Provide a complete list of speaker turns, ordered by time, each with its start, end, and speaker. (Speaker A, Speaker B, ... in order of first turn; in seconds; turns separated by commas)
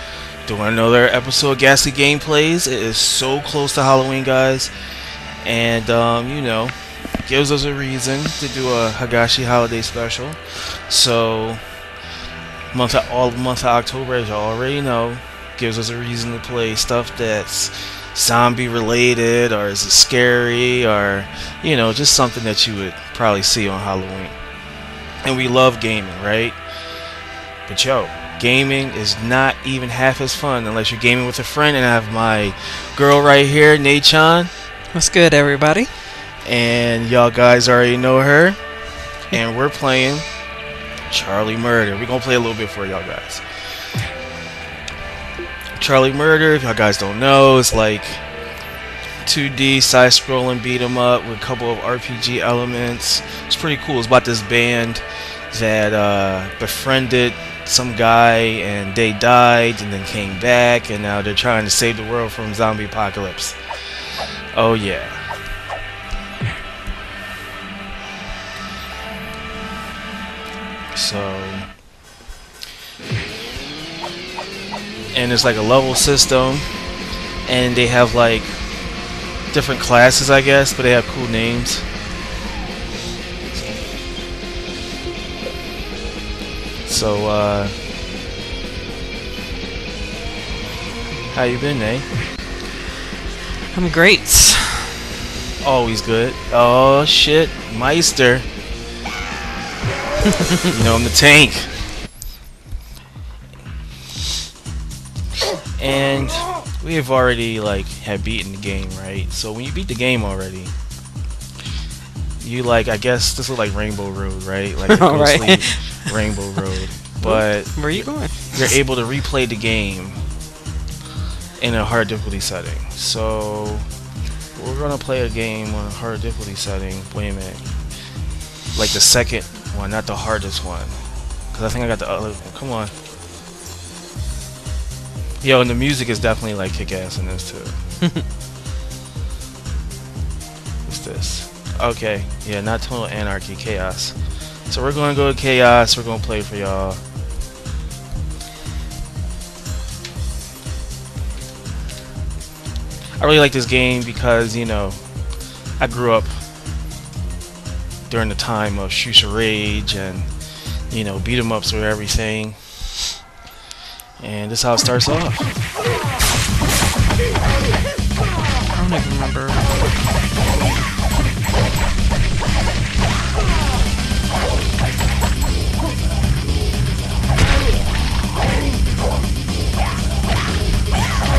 Speaker A: 0.5-4.7, Speaker A: 5.4-6.8, Speaker A: 7.3-11.6, Speaker A: 12.7-24.4, Speaker A: 25.2-26.6, Speaker A: 27.7-34.5, Speaker B: 34.9-35.9, Speaker A: 36.4-38.6, Speaker A: 39.3-40.3, Speaker A: 41.1-43.4, Speaker A: 45.8-48.2, Speaker A: 49.2-63.6, Speaker A: 64.5-65.2, Speaker A: 70.9-71.7, Speaker A: 75.1-76.7, Speaker A: 77.5-78.5, Speaker A: 79.5-81.8, Speaker A: 86.8-87.8, Speaker A: 91.3-92.1, Speaker B: 93.7-95.0, Speaker A: 95.6-98.5, Speaker A: 100.7-101.7, Speaker A: 105.8-110.7, Speaker A: 112.4-120.2, Speaker B: 114.9-116.1, Speaker B: 117.2-118.6, Speaker A: 121.6-123.9, Speaker A: 124.5-127.6, Speaker A: 128.7-131.0, Speaker A: 131.5-132.9, Speaker A: 135.4-137.8, Speaker A: 140.9-144.2, Speaker A: 144.7-147.0, Speaker A: 153.2-155.0, Speaker A: 155.8-156.4, Speaker A: 158.1-160.3, Speaker A: 160.9-162.6, Speaker A: 164.2-165.5, Speaker B: 168.7-169.7